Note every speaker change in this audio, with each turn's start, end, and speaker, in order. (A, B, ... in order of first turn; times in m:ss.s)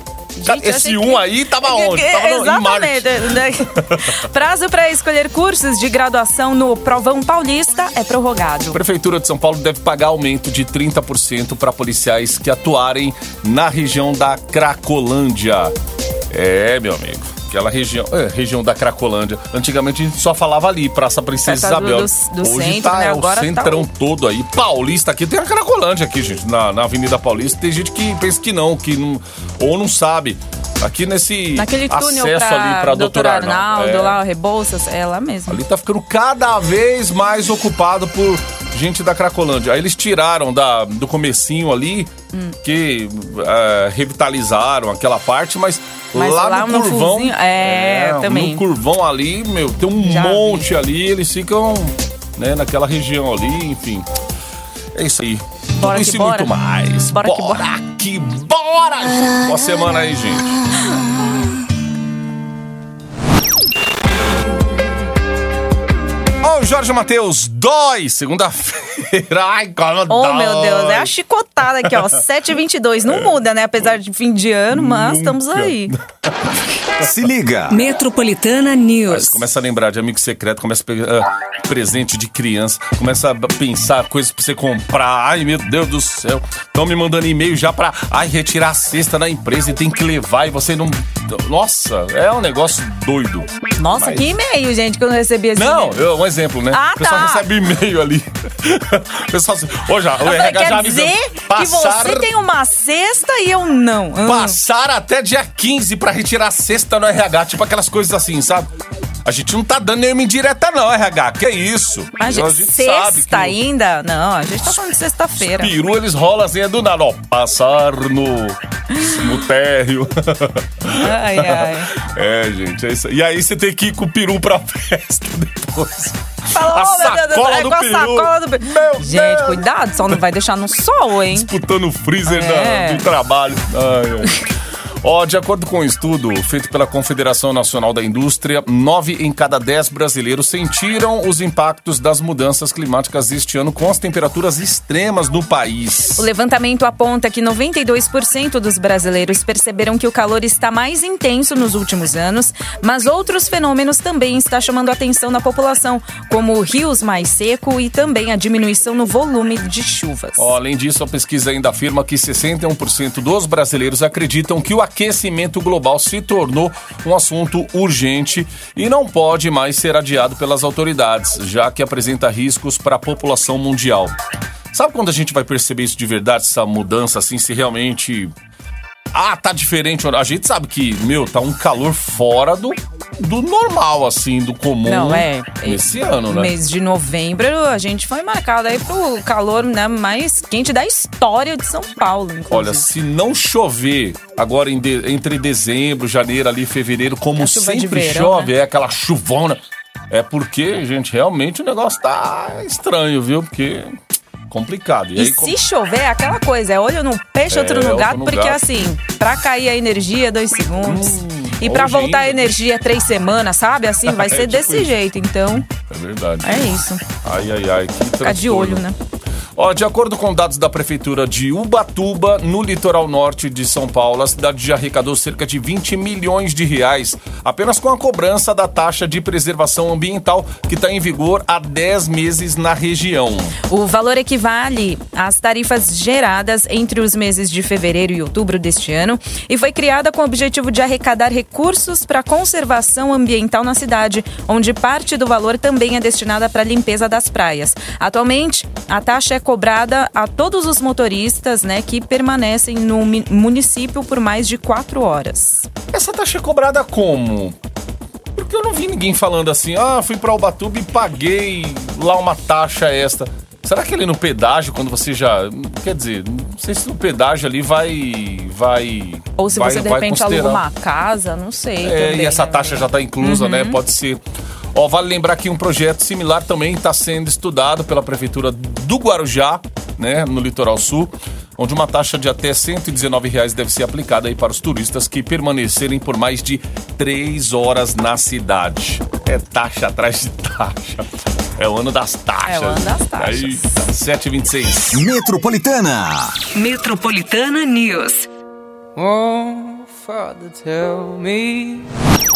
0:00.4-0:08.8 A
0:00.4-0:04.2 B
0:08.7-0:15.7 B
0:16.3-0:34.2 B
0:21.4-0:23.9 A
0:31.6-0:35.6 A
0:35.5-0:42.1 B
0:42.6-0:54.1 B
0:46.1-0:48.6 A
0:50.0-0:50.7 A
0:54.9-1:00.6 B
0:55.8-0:56.5 A
0:57.1-0:57.6 A
1:06.4-1:11.1 B
1:10.1-1:15.9 A
1:11.8-1:12.2 B
1:14.7-1:16.6 B
1:17.0-1:17.8 C
1:17.7-1:19.4 D
1:19.1-1:34.3 B
1:33.8-1:36.0 A
1:35.6-1:42.3 B
1:36.7-1:37.5 A
1:40.2-1:44.6 A
1:44.2-1:48.7 B
1:49.2-1:53.6 B
1:52.2-1:55.8 A
1:55.4-2:09.6 B
2:00.9-2:01.9 A
2:06.5-2:11.5 A
2:11.3-2:14.5 B
2:12.2-2:13.1 A
2:15.0-2:26.3 B
2:26.2-2:40.5 A
2:40.4-2:54.1 B
2:54.7-2:58.3 B
2:59.1-3:06.5 B
3:04.8-3:12.9 A
3:12.5-3:24.0 B
3:17.4-3:18.5 A
3:24.5-3:25.5 B
3:25.1-3:35.7 A
3:27.5-3:28.6 B
3:30.8-3:32.6 B
3:34.0-3:34.9 B
3:35.9-3:38.8 B
3:36.4-3:37.0 A
3:38.2-3:39.0 A
3:39.6-3:53.5 B
3:53.7-4:15.7 A
4:15.9-4:17.6 B
4:18.4-4:30.6 B
4:29.4-4:33.8 A
4:31.8-4:34.2 B
4:34.7-4:55.0 B
4:52.4-4:53.8 A
4:54.9-4:56.3 C
4:56.5-4:58.3 D
4:59.0-5:01.9 E